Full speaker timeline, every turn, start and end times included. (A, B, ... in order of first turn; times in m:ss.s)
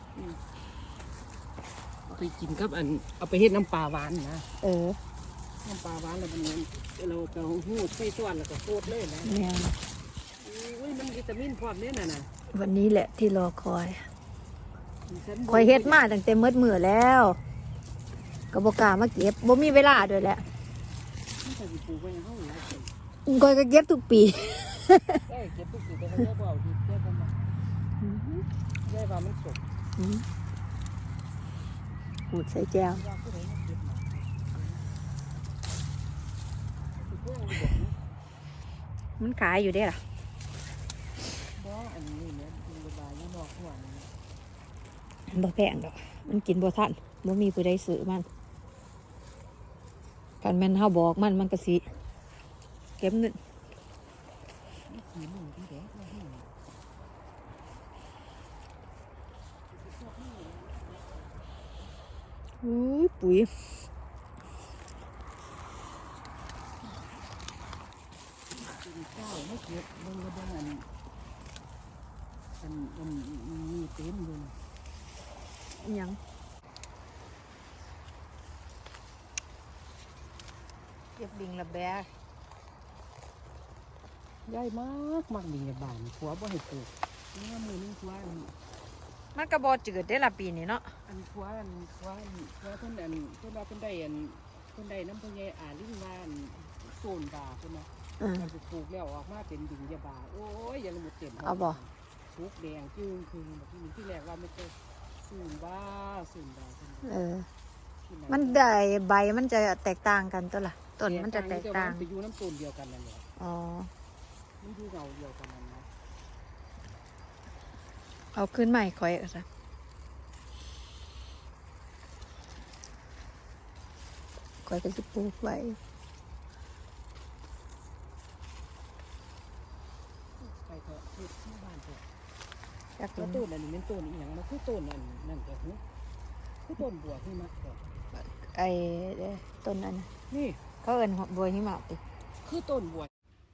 0:02.1-0:04.5 A
0:04.6-0:05.0 B
0:05.6-0:09.5 A
0:09.2-0:09.8 B
0:10.4-0:12.3 A
0:12.5-0:14.1 B
0:15.1-0:16.1 A
0:15.5-0:17.4 B
0:18.5-0:20.4 B
0:21.4-0:22.9 A
0:23.3-0:25.2 B
0:25.3-0:27.5 A
0:28.0-0:28.4 B
0:28.8-0:29.6 A
0:30.0-0:30.2 B
0:32.3-0:33.0 B
0:32.8-0:34.9 A
0:37.0-0:38.0 A
0:39.2-0:40.0 B
0:41.5-0:44.1 A
0:45.3-0:48.3 B
0:50.4-0:51.9 B
0:53.0-0:53.4 B
0:54.9-0:56.5 A
0:59.7-1:01.4 A
1:02.6-1:03.5 B
1:08.5-1:10.9 A
1:12.6-1:14.6 A
1:15.8-1:16.2 B
1:21.2-1:22.1 B
1:24.5-1:28.5 A
1:29.4-1:30.9 B
1:31.1-1:47.2 A
1:38.2-1:38.5 B
1:41.4-1:41.8 B
1:47.0-1:47.5 B
1:48.0-1:48.8 A
1:48.3-1:52.0 B
1:51.0-1:53.2 A
1:53.4-1:53.9 B
1:54.6-1:55.9 A
1:58.3-1:59.5 B
2:04.6-2:05.8 B
2:10.4-2:12.0 A
2:13.0-2:13.4 B
2:13.2-2:15.8 A
2:16.6-2:17.8 A
2:18.2-2:20.1 B
2:20.3-2:20.6 A
2:20.8-2:22.0 B
2:22.4-2:23.1 A